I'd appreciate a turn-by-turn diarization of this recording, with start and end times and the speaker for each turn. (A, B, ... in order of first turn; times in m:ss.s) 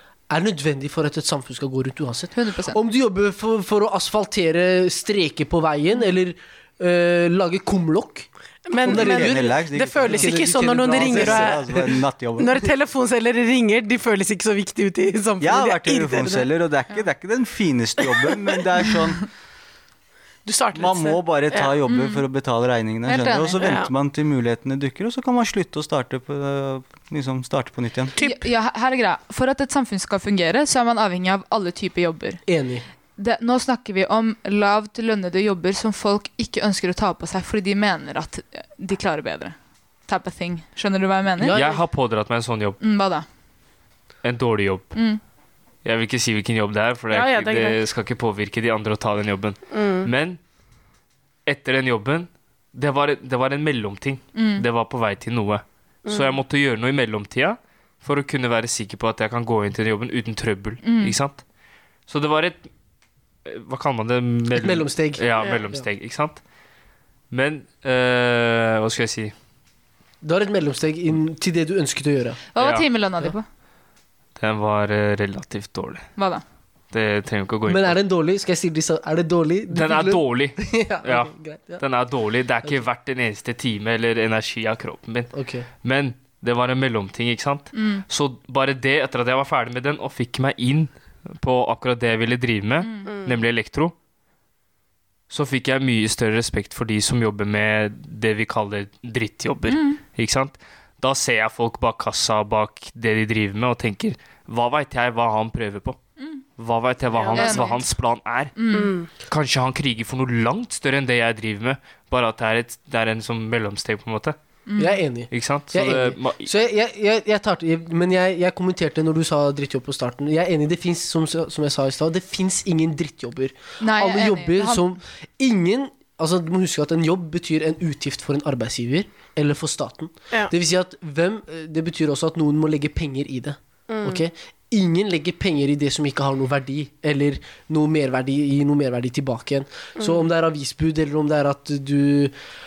0:00.3-0:08.3 A
0:02.3-0:02.8 B
0:08.7-0:11.8 C
0:08.8-0:12.0 A
0:08.8-0:12.6 D
0:12.4-0:16.5 C
0:15.4-0:19.3 D
0:20.4-0:21.8 C
0:20.7-0:28.2 D
0:21.9-0:22.2 B
0:23.0-0:23.7 B
0:23.6-0:23.9 C
0:28.1-0:28.4 C
0:28.2-0:32.4 B
0:32.5-0:32.8 A
0:33.2-0:39.6 B
0:40.1-0:41.6 B
0:41.4-0:41.8 A
0:41.5-0:42.8 E
0:42.8-0:43.2 B
0:44.2-0:45.0 E
0:44.9-0:45.2 B
0:45.8-0:50.4 E
0:47.1-0:47.8 C
0:49.7-0:50.1 C
0:51.4-1:01.4 E
0:54.3-0:54.6 B
0:56.0-0:56.4 C
1:00.8-1:01.2 B
1:02.1-1:02.7 E
1:03.4-1:06.4 E
1:04.5-1:05.8 A
1:07.3-1:09.3 E
1:10.2-1:12.4 A
1:12.5-1:13.4 B
1:12.6-1:12.8 E
1:14.4-1:16.1 E
1:16.2-1:16.4 B
1:16.9-1:18.0 E
1:17.7-1:21.8 A
1:19.7-1:25.3 E
1:25.3-1:25.7 A
1:25.8-1:33.9 E
1:27.7-1:28.0 B
1:32.8-1:33.1 B
1:33.1-1:33.4 C
1:35.3-1:46.0 E
1:39.7-1:40.0 B
1:46.6-1:48.6 E
1:47.1-1:47.7 C
1:47.3-1:47.8 B
1:48.6-1:48.9 B
1:48.7-1:49.1 C
1:49.1-1:54.4 E
1:54.7-1:55.0 B
1:54.8-2:22.3 A
1:55.3-1:56.5 E
2:03.8-2:04.8 B
2:13.9-2:14.2 C